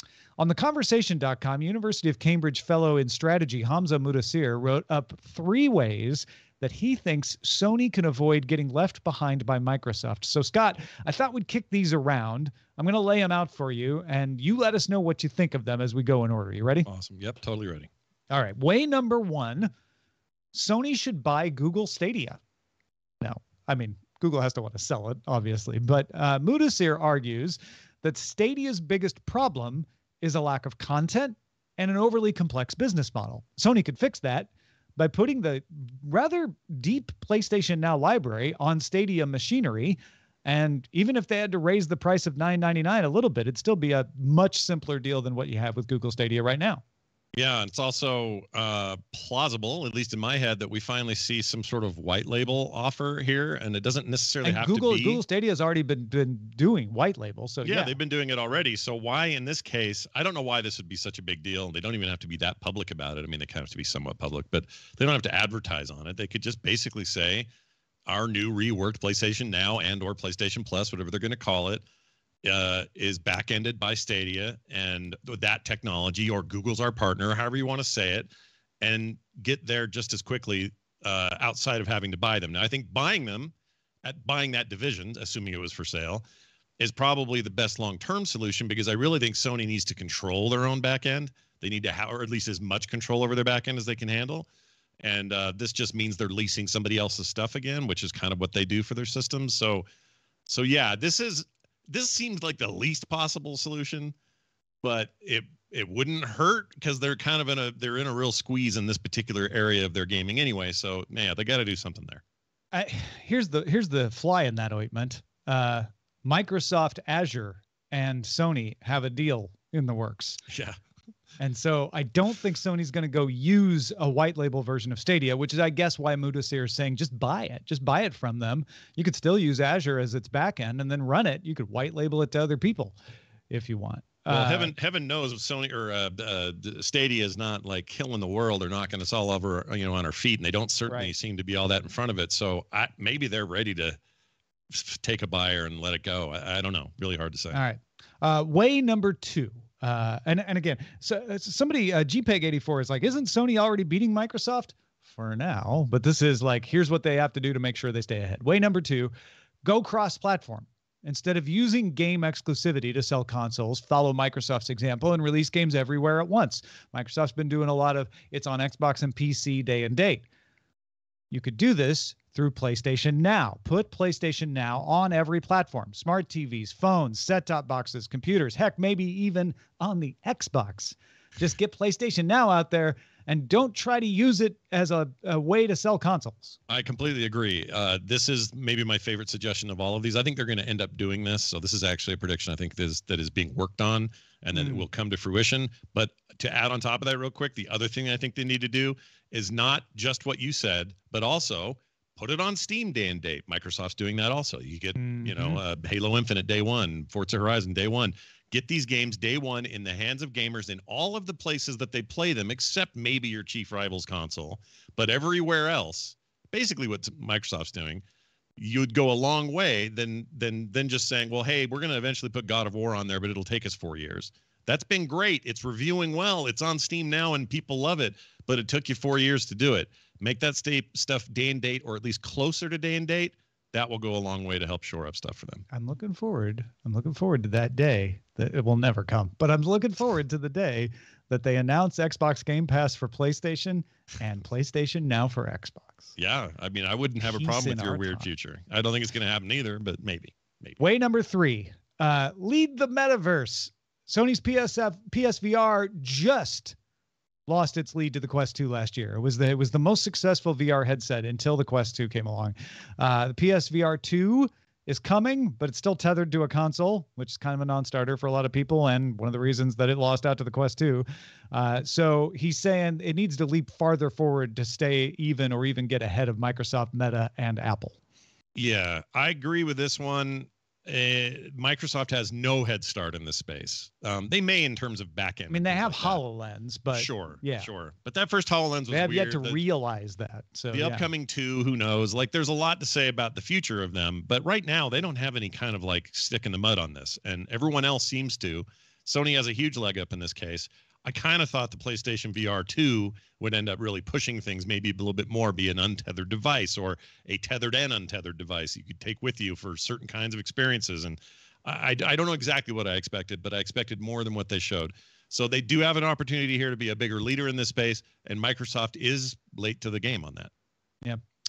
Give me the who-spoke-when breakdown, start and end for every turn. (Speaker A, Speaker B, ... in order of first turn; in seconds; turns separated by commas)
Speaker A: 0.4-16.9, Speaker B: 16.9-17.9, Speaker A: 18.3-19.7, Speaker A: 20.5-22.4, Speaker A: 23.2-46.8, Speaker B: 47.3-55.2, Speaker A: 54.4-58.0, Speaker B: 57.6-67.5, Speaker B: 68.1-71.8, Speaker B: 72.4-78.3, Speaker B: 78.8-86.2, Speaker B: 86.8-94.5, Speaker B: 95.0-99.9, Speaker B: 100.5-104.2, Speaker B: 104.8-112.2, Speaker A: 112.7-120.4, Speaker B: 120.5-120.8, Speaker A: 121.4-133.0, Speaker A: 133.5-134.7, Speaker B: 134.3-144.0, Speaker B: 144.7-147.6, Speaker A: 147.5-159.1, Speaker A: 159.6-170.2, Speaker A: 171.3-186.6, Speaker B: 186.7-218.0, Speaker A: 194.5-194.8, Speaker A: 205.0-205.6, Speaker B: 218.6-235.7, Speaker A: 235.7-246.1, Speaker B: 246.2-250.8, Speaker A: 247.2-248.3, Speaker A: 250.8-256.8, Speaker A: 257.5-278.0, Speaker B: 278.6-286.2, Speaker A: 285.5-287.7, Speaker B: 286.9-289.6, Speaker A: 288.9-291.1, Speaker B: 290.7-320.5